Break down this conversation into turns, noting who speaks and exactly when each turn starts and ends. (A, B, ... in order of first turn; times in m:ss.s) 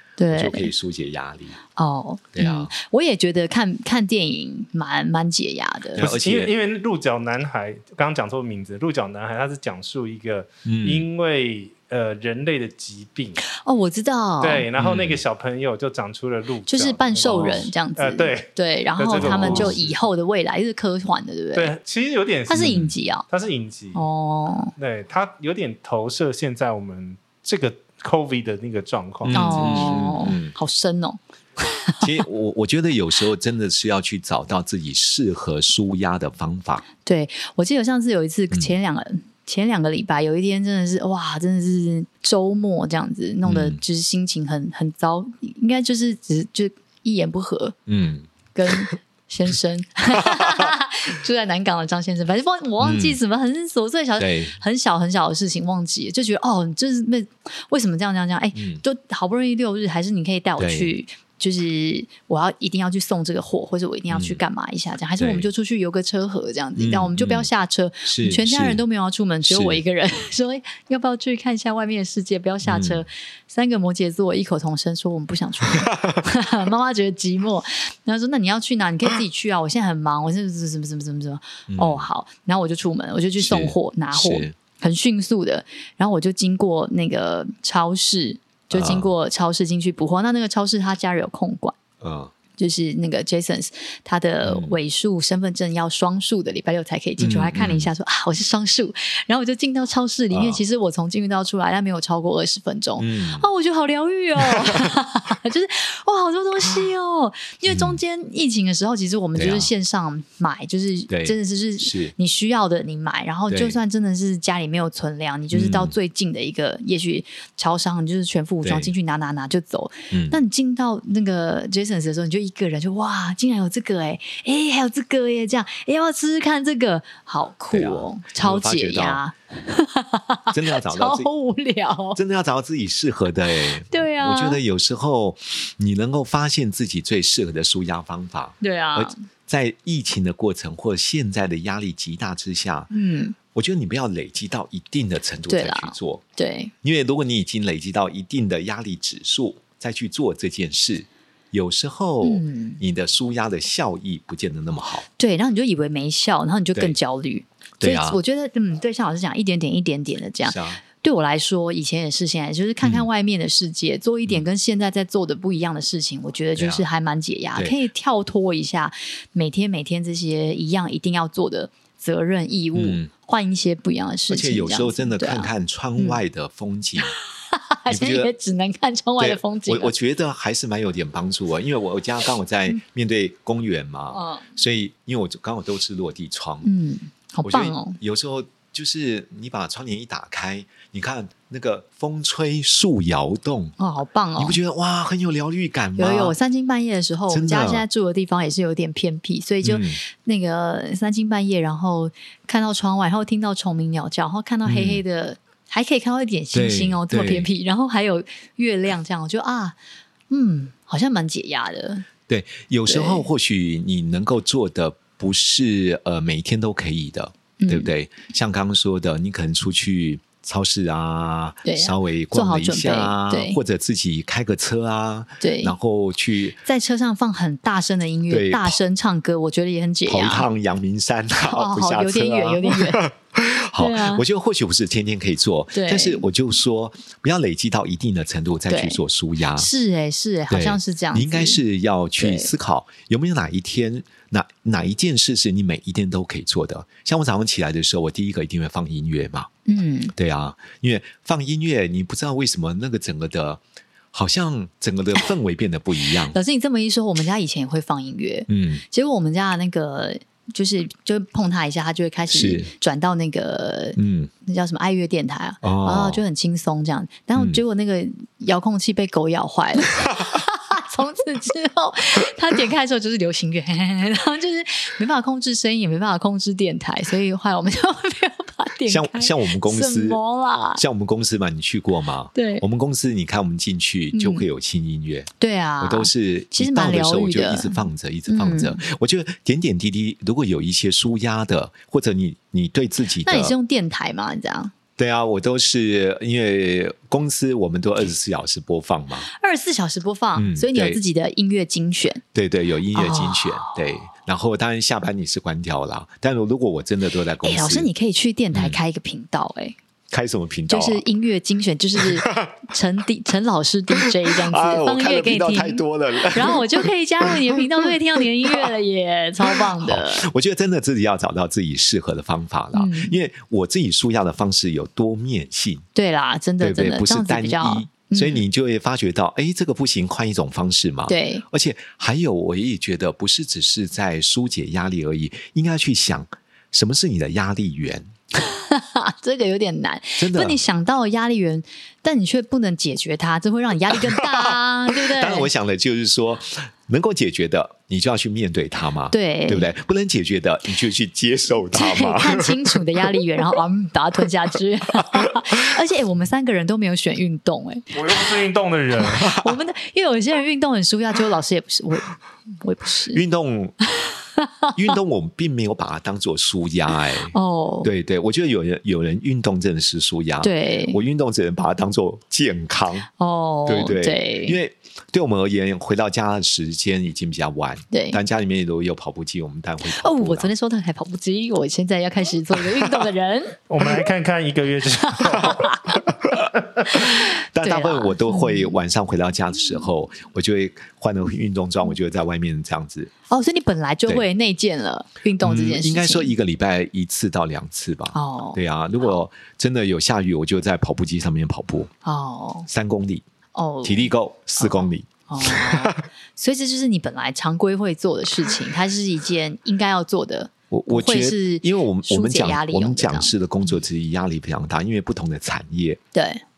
0:00.2-0:00.7 A
0:00.3-0:01.6 B
0:01.8-0:06.1 A
0:02.3-0:02.7 B
0:06.0-0:06.5 B
0:06.0-0:13.4 C
0:10.7-0:11.1 B
0:13.6-0:14.7 A
0:14.4-0:20.0 C
0:14.8-0:15.2 B
0:16.7-0:21.7 A
0:19.1-0:19.8 B
0:21.6-0:24.0 C
0:22.5-0:23.3 A
0:22.6-0:22.9 B
0:23.9-0:24.7 A
0:24.8-0:30.0 C
0:29.2-0:30.6 B
0:29.3-0:32.1 A
0:32.0-0:36.8 B
0:37.0-0:47.8 A
0:43.4-0:43.8 B
0:47.9-0:48.9 B
0:48.5-1:31.8 A
0:50.2-0:50.7 B
0:52.8-0:53.2 B
0:54.2-0:54.6 B
0:58.6-0:58.8 B
1:00.6-1:00.9 B
1:04.1-1:04.4 B
1:05.2-1:05.5 B
1:06.8-1:07.5 B
1:08.1-1:08.8 B
1:09.5-1:09.8 B
1:12.6-1:13.1 B
1:15.8-1:16.2 B
1:21.7-1:22.1 B
1:23.4-1:24.6 B
1:28.7-1:29.1 B
1:32.0-1:32.3 B
1:32.6-2:12.2 A
1:34.4-1:34.8 B
1:37.2-1:37.9 B
1:40.3-1:40.6 B
1:43.0-1:43.5 B
1:47.7-1:48.0 B
1:49.4-1:49.7 B
1:51.1-1:52.1 B
1:53.5-1:53.8 B
1:55.5-1:55.9 B
1:58.6-1:58.9 B
2:00.1-2:00.4 B
2:07.7-2:09.2 B
2:10.5-2:11.3 B
2:12.2-2:22.9 B
2:13.9-2:14.6 A
2:18.6-2:19.2 A
2:22.9-2:23.4 A
2:23.5-2:26.2 B
2:25.5-2:26.7 A
2:26.8-2:35.1 B
2:32.2-2:32.8 A
2:35.2-2:56.2 A
2:37.8-2:38.2 B
2:40.4-2:40.8 B
2:42.8-2:43.1 B
2:46.6-2:46.8 B
2:52.8-2:53.1 B
2:54.3-2:57.2 B
2:57.0-2:59.9 A
2:57.9-2:58.3 B
2:59.2-3:06.7 B
3:04.1-3:04.5 A
3:06.6-3:08.0 A
3:07.4-3:13.8 B
3:13.8-3:14.6 A
3:14.4-3:16.4 B
3:16.0-3:29.8 A
3:17.3-3:17.8 B
3:19.6-3:20.0 B
3:24.7-3:25.0 B
3:26.5-3:27.5 B
3:30.3-3:32.0 A
3:32.3-3:46.6 B
3:32.9-3:33.3 A
3:37.6-3:37.9 A
3:41.6-3:43.6 A
3:45.4-3:45.7 A
3:46.6-3:50.5 A
3:48.3-3:48.8 B
3:50.1-3:59.7 B
3:51.5-3:53.0 A
3:53.8-3:54.2 A
3:55.7-3:56.3 A
3:58.7-3:59.0 A
3:59.6-4:01.6 A
4:00.5-4:09.5 B
4:02.2-4:02.5 A
4:09.7-4:10.2 A
4:10.2-4:13.6 B
4:14.1-4:16.4 B
4:16.3-4:40.8 A
4:18.5-4:18.8 B
4:22.3-4:22.7 B
4:24.0-4:24.3 B
4:25.6-4:26.2 B
4:38.9-4:40.2 B
4:40.8-4:45.3 B
4:42.4-4:42.6 A
4:44.1-4:44.5 A
4:45.4-4:48.8 A
4:45.8-4:53.5 B
4:53.2-4:54.7 A
4:55.0-4:59.3 B
4:59.3-5:02.2 A
5:00.4-5:01.0 B
5:02.3-5:07.9 B
5:02.9-5:03.8 A
5:07.4-5:09.8 A
5:08.5-5:08.8 B
5:10.1-5:11.0 B
5:10.7-5:20.3 A
5:12.0-5:12.6 B
5:14.0-5:18.7 B
5:19.4-5:25.8 B
5:22.7-5:23.2 A
5:26.0-5:28.4 A
5:26.6-5:38.1 B
5:31.1-5:31.4 A
5:38.4-5:45.5 A
5:40.2-5:40.6 B
5:43.9-5:53.2 B
5:49.1-5:49.7 A
5:51.7-5:57.9 A
5:55.1-5:55.3 B
5:57.9-5:59.3 C
5:59.2-5:59.5 B
5:59.3-6:03.2 A
6:03.1-6:03.8 B
6:04.0-6:04.8 A
6:04.8-6:13.1 B
6:07.3-6:07.9 A
6:10.4-6:11.0 A
6:13.2-6:14.6 A
6:13.7-6:20.5 B
6:17.9-6:18.2 A
6:20.0-6:23.6 A
6:22.6-6:22.9 B
6:23.7-6:25.6 C
6:25.1-6:26.0 A
6:26.2-6:33.1 B
6:26.9-6:28.8 A
6:33.3-6:36.3 A
6:35.4-6:41.9 B
6:38.1-6:39.2 A
6:42.0-6:42.7 A
6:42.7-6:43.2 B
6:43.6-6:53.8 A
6:43.8-6:46.0 B
6:50.7-6:56.0 B
6:56.1-6:56.4 A